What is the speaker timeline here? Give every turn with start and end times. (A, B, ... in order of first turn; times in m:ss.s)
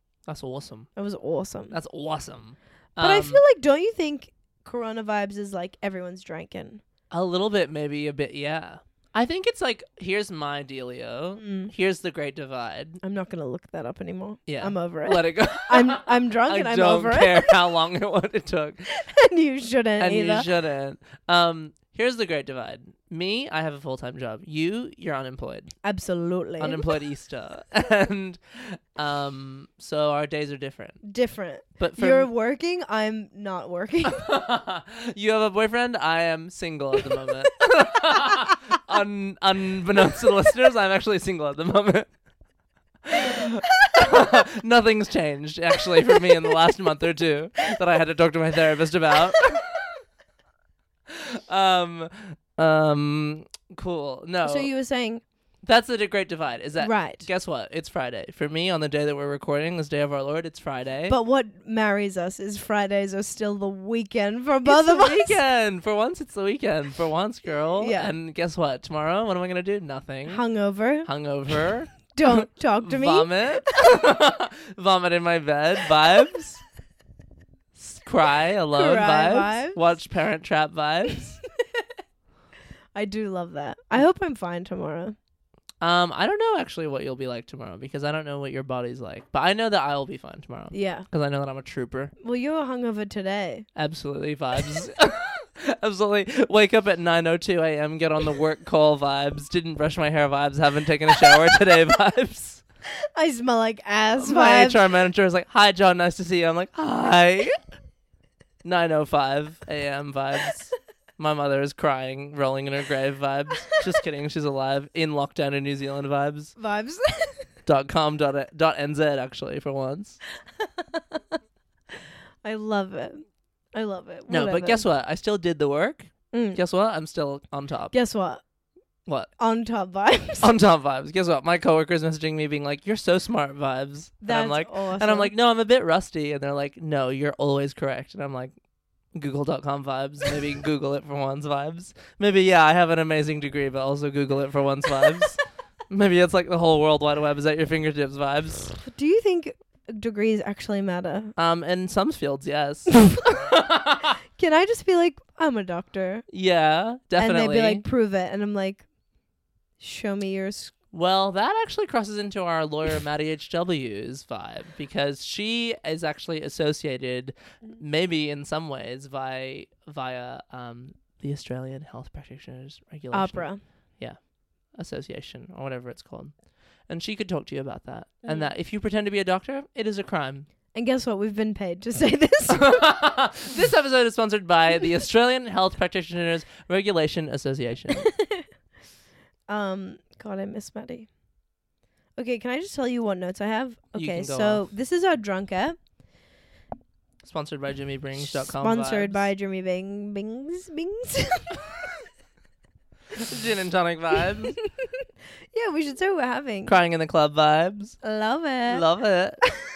0:00.3-0:00.9 A
0:01.0-0:01.7 B
0:01.7-0:03.4 A
0:03.0-0:06.8 B
0:07.1-0:13.0 A
0:11.4-0:11.7 B
0:13.0-0:17.5 B
0:14.5-0:18.8 A
0:18.9-0:20.5 B
0:20.0-0:25.7 A
0:25.8-0:26.9 B
0:26.6-0:31.0 A
0:31.0-0:34.2 B
0:31.8-0:32.3 A
0:34.0-0:42.1 A
0:43.0-0:49.6 A
0:51.1-0:54.7 A
0:54.4-0:55.2 B
0:55.6-1:01.2 A
0:56.8-0:57.3 B
1:01.1-1:05.4 B
1:04.6-1:10.4 A
1:07.8-1:08.1 B
1:10.3-1:11.1 B
1:11.0-1:16.6 A
1:12.1-1:13.3 B
1:17.8-1:21.4 A
1:18.7-1:19.8 B
1:22.9-1:25.2 B
1:25.8-1:32.1 A
1:30.7-1:31.0 B
1:32.2-1:33.6 B
1:33.8-1:42.6 A
1:43.1-1:44.8 B
1:44.2-1:47.6 A
1:48.6-1:56.5 A
1:56.6-1:57.4 B
1:57.6-2:00.2 A
2:00.6-2:01.2 B
2:02.4-2:04.8 B
2:04.3-2:07.9 A
2:06.3-2:06.6 B
2:07.9-2:08.4 B
2:09.4-2:10.6 B
2:10.4-2:18.5 A
2:14.2-2:15.3 B
2:19.1-2:28.8 A
2:28.8-2:31.3 B
2:31.4-2:34.1 A
2:34.4-2:36.2 B
2:36.3-2:37.8 A
2:37.2-2:38.8 B
2:39.8-2:40.7 B
2:40.9-2:54.2 A
2:53.1-2:53.6 B
2:54.7-2:56.3 A
2:56.9-3:00.5 A
3:00.7-3:03.0 B
3:02.5-3:08.0 A
3:08.0-3:08.4 B
3:09.5-3:11.1 B
3:12.2-3:15.8 B
3:13.9-3:14.6 A
3:17.2-3:19.3 A
3:18.2-3:21.6 B
3:23.1-3:24.6 A
3:25.5-3:26.7 B
3:26.7-3:28.0 A
3:28.0-3:28.8 B
3:28.7-3:29.4 A